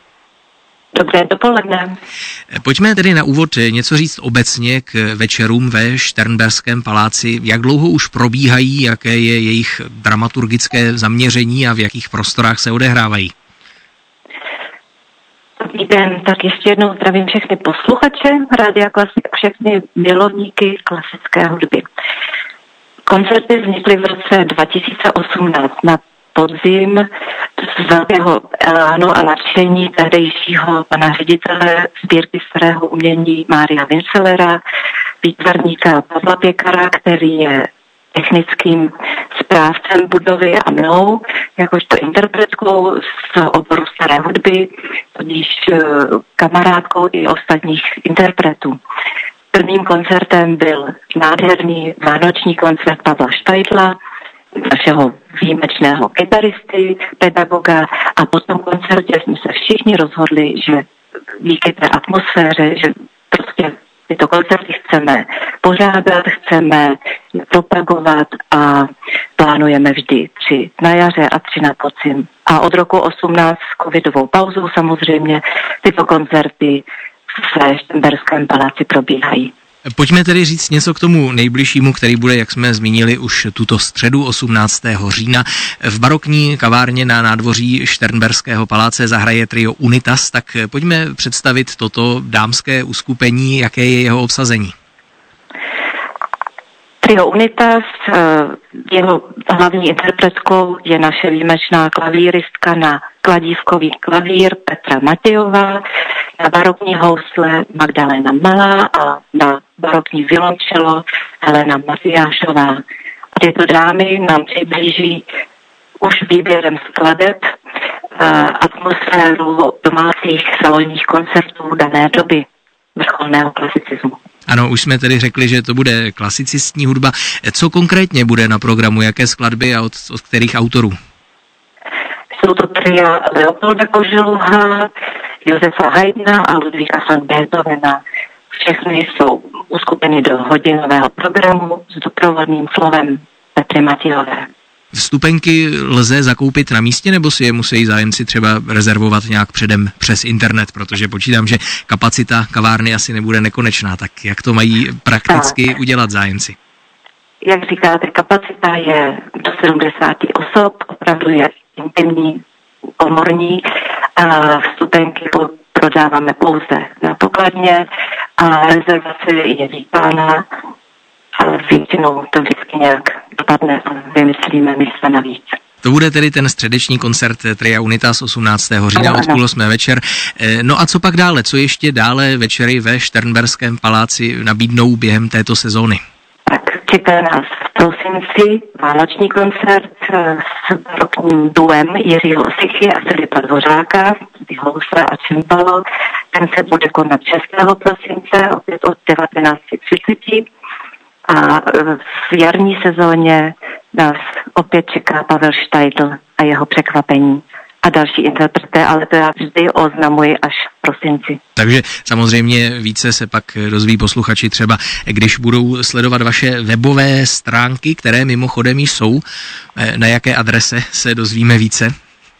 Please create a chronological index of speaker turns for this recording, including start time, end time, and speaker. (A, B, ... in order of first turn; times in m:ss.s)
0:00.9-0:02.0 A
0:02.5-0:13.3 B
0:15.6-0:21.8 A
0:23.1-0:27.0 A
0:27.6-0:34.6 A
0:35.2-0:48.8 A
0:49.5-0:54.0 A
0:54.5-1:00.8 A
1:01.4-1:19.5 A
1:19.9-1:34.7 B
1:37.0-1:45.8 A
1:46.4-1:52.8 A
1:53.3-1:55.2 A
1:56.0-1:57.4 A
1:58.2-2:02.4 A
2:03.0-2:04.2 A
2:04.5-2:11.0 B
2:12.4-2:14.9 A
2:15.4-2:18.0 A
2:18.5-2:24.5 A
2:24.9-2:36.6 B
2:35.3-2:35.5 A
2:37.4-2:42.4 A
2:43.0-2:43.6 A
2:44.2-2:47.8 A
2:48.4-2:50.4 A
2:51.4-2:55.6 A
2:55.8-3:06.0 B
2:59.0-2:59.4 A
3:06.4-3:20.4 A
3:21.3-3:31.4 A
3:31.6-3:39.2 B
3:39.8-3:41.9 B